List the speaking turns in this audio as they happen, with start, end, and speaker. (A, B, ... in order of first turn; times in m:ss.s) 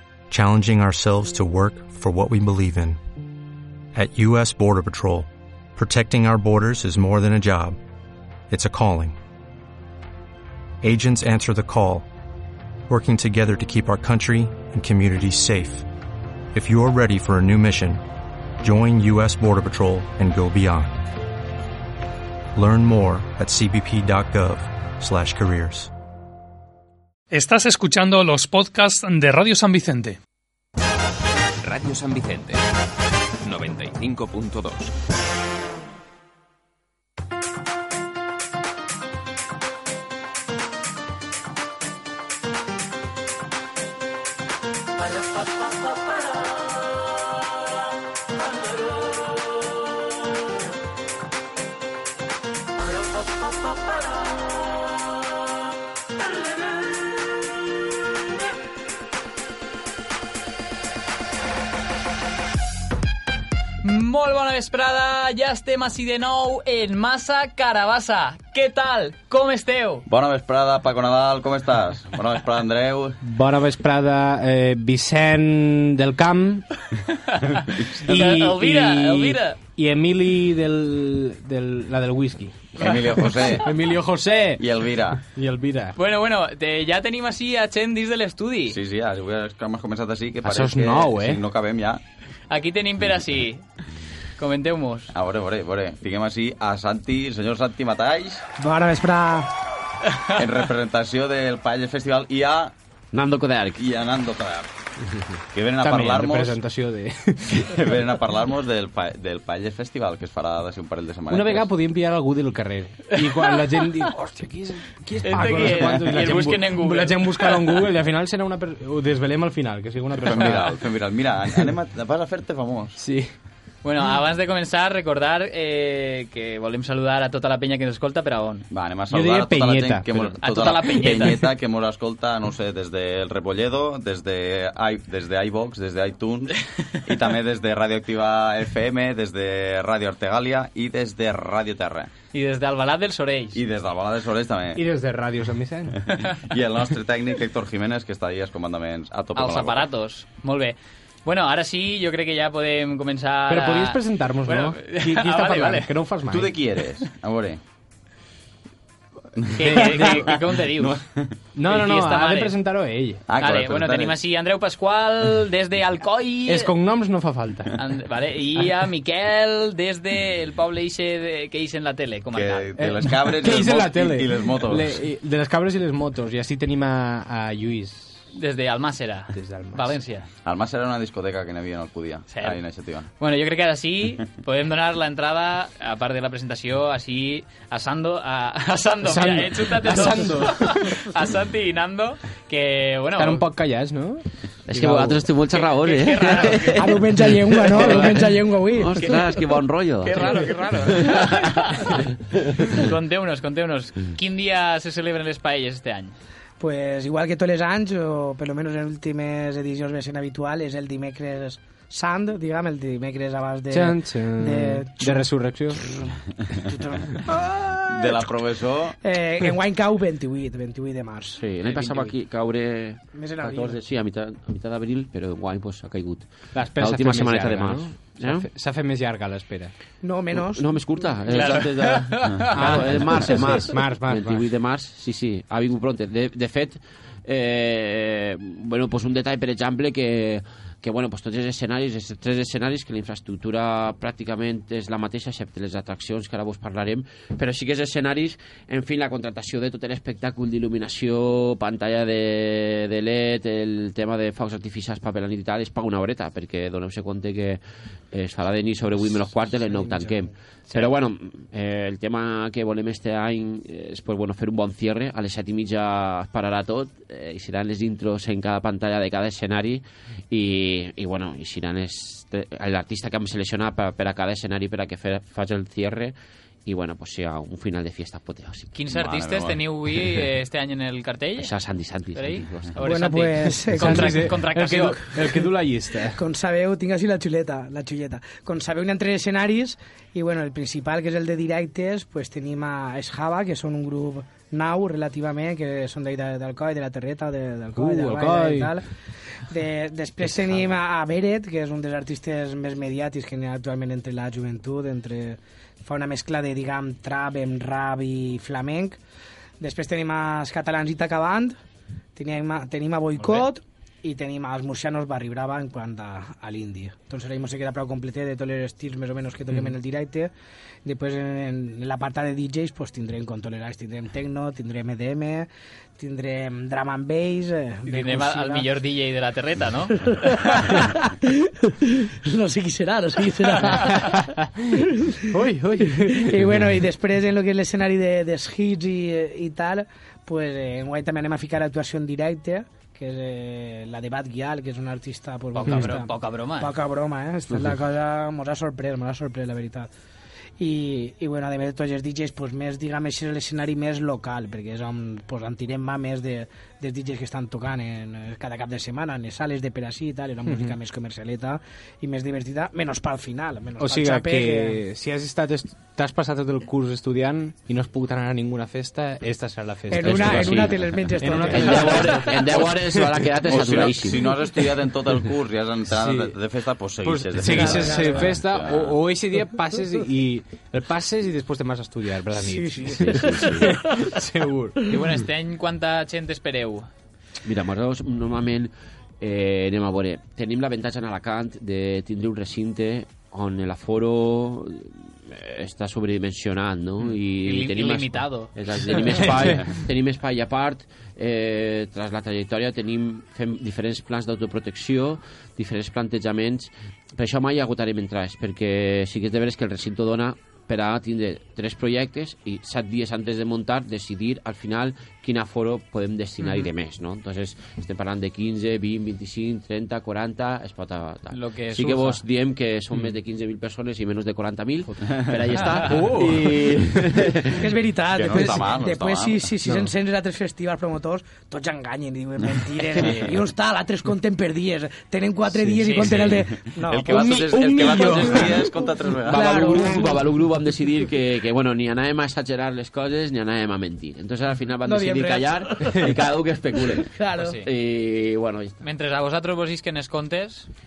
0:00.3-0:03.0 A
0:03.9-0:07.8 A
0:08.5-0:09.2 A
0:10.8-0:12.1 A
0:12.9-0:15.9 A
0:16.5-0:18.0 A
0:18.6-0:21.1 A
0:22.5-0:25.9 A
0:27.3-0:30.2 B
0:31.6-0:32.6 C
0:33.4-0:34.9 C
1:03.8-1:10.0 D
1:10.1-1:13.2 E
1:13.2-1:16.7 F
1:17.3-1:19.6 D
1:18.0-1:24.6 F
1:22.8-1:23.8 E
1:24.6-1:25.2 E
1:25.2-1:26.0 F
1:25.9-1:28.8 D
1:28.7-1:32.0 E
1:30.4-1:31.4 F
1:32.5-1:33.7 D
1:34.4-1:35.1 D
1:35.1-1:38.4 E
1:38.6-1:39.5 G
1:40.4-1:42.7 E
1:43.1-1:43.8 H
1:43.8-1:44.7 E
1:45.5-1:46.6 E
1:45.8-1:47.7 F
1:47.5-1:51.7 E
1:51.3-2:00.8 F
1:55.2-1:57.6 D
2:00.1-2:03.0 E
2:03.0-2:03.3 F
2:03.8-2:08.7 D
2:08.7-2:22.1 E
2:09.1-2:10.4 F
2:10.4-2:11.4 D
2:22.3-2:23.6 D
2:23.5-2:24.8 E
2:24.8-2:26.0 F
2:26.0-2:29.9 E
2:29.3-2:35.9 D
2:33.5-2:36.6 F
2:36.3-2:37.6 E
2:39.4-2:41.3 E
2:39.6-2:41.0 D
2:39.6-2:40.4 F
2:41.5-2:43.2 F
2:41.7-2:42.5 D
2:43.3-2:44.2 E
2:43.4-2:46.7 D
2:46.5-2:47.7 F
2:47.8-2:52.7 D
2:52.3-2:55.0 E
2:52.8-2:58.2 F
2:58.3-3:00.3 D
2:59.3-3:00.0 F
3:00.4-3:03.1 E
3:02.3-3:02.6 D
3:03.2-3:13.5 D
3:09.0-3:11.0 F
3:13.2-3:15.3 F
3:14.7-3:22.8 H
3:15.5-3:16.8 D
3:16.7-3:19.2 G
3:20.0-3:22.0 D
3:22.6-3:26.2 D
3:26.6-3:38.3 G
3:33.7-3:35.8 F
3:37.9-3:39.0 E
3:39.0-3:41.4 G
3:41.4-3:48.5 H
3:43.2-3:43.8 G
3:46.5-3:49.7 F
3:50.0-3:51.5 G
3:50.3-4:17.6 H
3:51.3-3:52.8 D
3:52.5-3:54.5 F
4:18.1-4:36.1 H
4:36.7-4:38.7 H
4:38.7-4:41.5 D
4:38.9-4:39.6 E
4:41.4-4:42.7 H
4:42.1-4:45.2 D
4:42.8-4:44.4 G
4:43.7-4:46.2 F
4:46.1-4:58.9 G
4:57.8-4:58.8 F
4:59.5-5:09.0 G
5:09.6-5:11.6 G
5:12.2-5:20.3 G
5:13.2-5:13.5 D
5:20.8-5:28.6 G
5:27.9-5:30.5 D
5:30.0-5:35.1 G
5:33.7-5:34.4 F
5:35.3-5:36.6 F
5:35.8-5:49.9 G
5:45.5-5:46.7 D
5:50.6-6:04.8 G
6:00.4-6:00.8 F
6:03.8-6:14.1 F
6:09.9-6:12.7 G
6:10.0-6:10.8 H
6:11.3-6:14.2 H
6:13.5-6:19.0 E
6:15.9-6:16.4 F
6:17.0-6:24.8 F
6:17.5-6:18.3 G
6:22.4-6:24.2 G
6:23.2-6:23.6 H
6:24.9-6:26.9 D
6:27.4-7:07.6 H
6:37.4-6:38.5 D
6:56.4-6:56.7 D
7:01.3-7:02.2 D
7:05.7-7:07.6 F
7:07.6-7:18.7 G
7:08.1-7:09.5 E
7:09.6-7:09.9 F
7:13.0-7:13.4 F
7:15.8-7:16.2 D
7:16.1-7:19.7 E
7:17.1-7:18.7 F
7:19.3-7:20.2 G
7:19.3-7:27.1 H
7:24.8-7:26.2 G
7:26.8-7:27.6 G
7:27.4-7:27.7 D
7:27.6-7:28.8 H
7:28.8-7:30.7 D